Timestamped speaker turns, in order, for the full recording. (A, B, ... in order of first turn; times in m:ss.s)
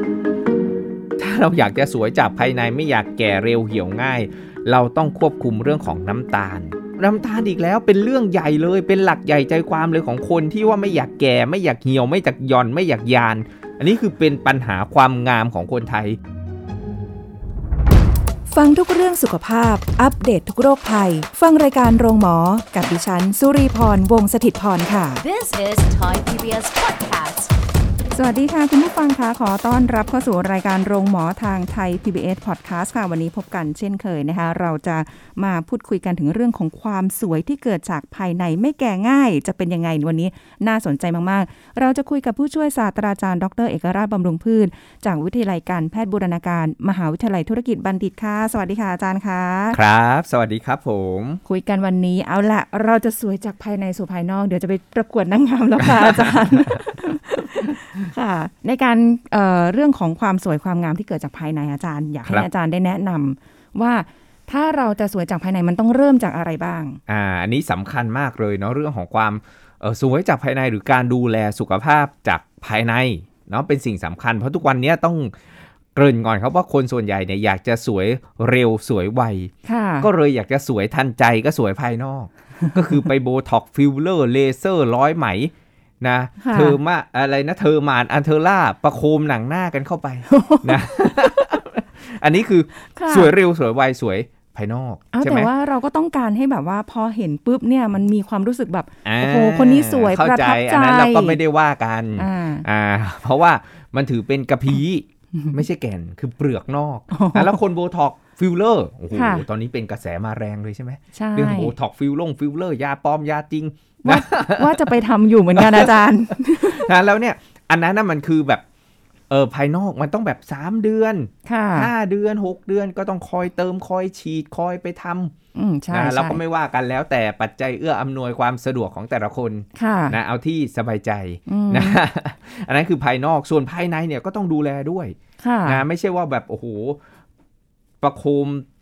0:01.2-0:16.2 A
0:18.5-0:25.2 B
0:25.2-0:27.5 C
0:28.1-0:49.8 B
0:49.7-0:51.4 A
0:51.5-1:07.0 B
0:55.8-0:56.4 A
1:07.1-1:15.3 A
1:16.0-1:35.5 A
1:19.7-1:20.1 B
1:26.4-1:26.8 B
1:30.3-1:31.4 B
1:32.9-1:33.3 B
1:35.1-1:41.4 B
1:39.0-1:54.9 A
1:42.2-1:42.7 B
1:47.1-1:47.6 B
1:49.1-1:49.4 B
1:51.1-1:51.7 B
1:54.0-1:56.9 B
1:55.5-1:56.0 A
1:56.5-1:58.6 A
1:59.3-2:05.3 A
2:01.5-2:01.9 B
2:05.6-2:06.4 B
2:05.9-2:17.0 A
2:09.8-2:10.2 B
2:11.5-2:12.0 B
2:15.4-2:15.8 B
2:18.0-2:18.6 A